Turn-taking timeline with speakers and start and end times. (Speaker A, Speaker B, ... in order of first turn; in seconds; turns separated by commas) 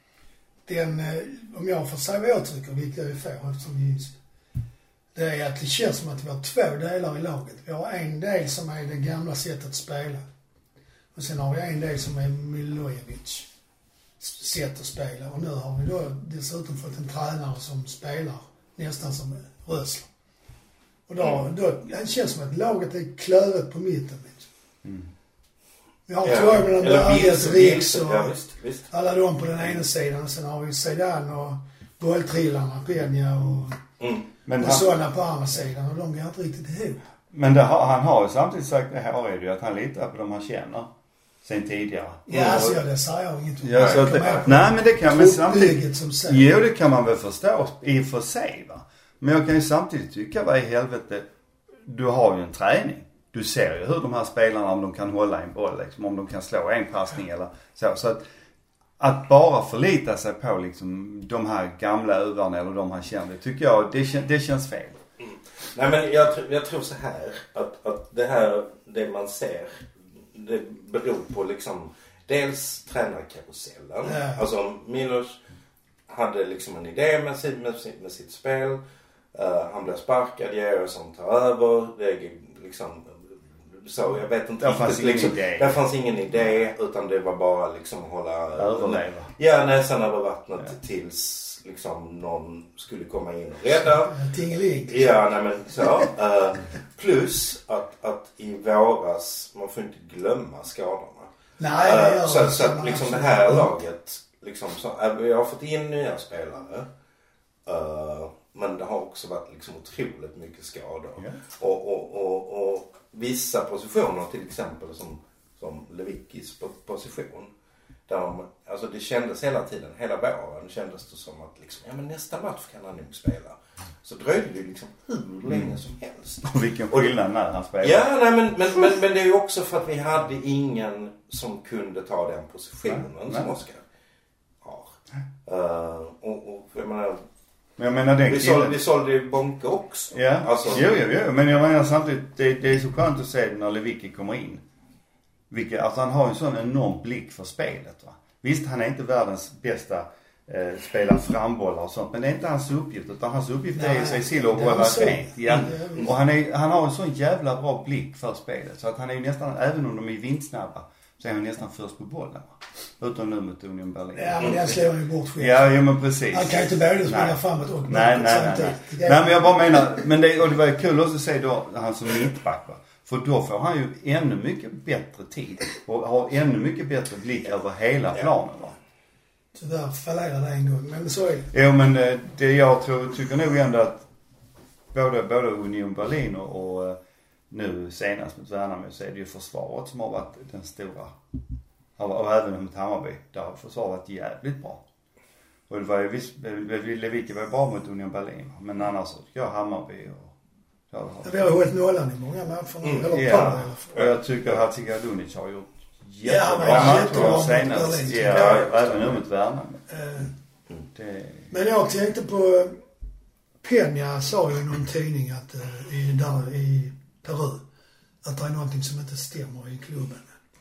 Speaker A: 0.7-4.2, Speaker A: 5.1-10.2, Speaker A: 11.1-13.5, Speaker A: 14.2-20.1, Speaker A: 21.1-24.5, Speaker B: 24.8-25.1, Speaker A: 26.1-28.3, Speaker C: 26.2-28.9, Speaker A: 28.9-33.8, Speaker C: 34.0-34.2, Speaker B: 34.5-34.9, Speaker A: 34.6-37.0, Speaker B: 37.3-40.9, Speaker B: 41.4-42.8, Speaker A: 42.3-46.5, Speaker B: 43.6-51.3, Speaker C: 43.8-44.0, Speaker B: 51.8-58.2, Speaker B: 59.0-65.0, Speaker C: 65.2-75.4, Speaker A: 74.0-74.4, Speaker C: 76.1-78.8, Speaker C: 79.3-94.2, Speaker B: 84.6-85.8, Speaker B: 88.5-89.3, Speaker A: 94.1-95.1, Speaker C: 94.9-106.9, Speaker A: 101.6-103.8, Speaker C: 107.7-117.5, Speaker C: 118.1-127.1, Speaker B: 125.5-125.7, Speaker B: 126.4-128.1, Speaker C: 127.8-133.8, Speaker B: 132.8-133.5, Speaker C: 134.6-137.2, Speaker B: 137.8-138.8, Speaker C: 138.3-140.8, Speaker B: 140.1-144.6, Speaker B: 145.5-164.8, Speaker A: 153.7-156.1, Speaker A: 164.1-170.0, Speaker B: 165.4-178.8, Speaker A: 179.5-181.5, Speaker B: 181.5-184.0, Speaker B: 184.9-187.0, Speaker B: 187.5-191.1, Speaker B: 192.0-194.8, Speaker B: 195.7-200.3, Speaker B: 200.9-201.4, Speaker A: 201.2-204.0, Speaker C: 202.8-204.1, Speaker B: 203.1-209.8, Speaker A: 206.2-208.7, Speaker C: 206.6-207.4, Speaker C: 208.1-209.2, Speaker A: 209.9-210.3, Speaker B: 210.9-211.5, Speaker A: 211.5-212.8, Speaker A: 213.6-217.6, Speaker A: 218.2-220.3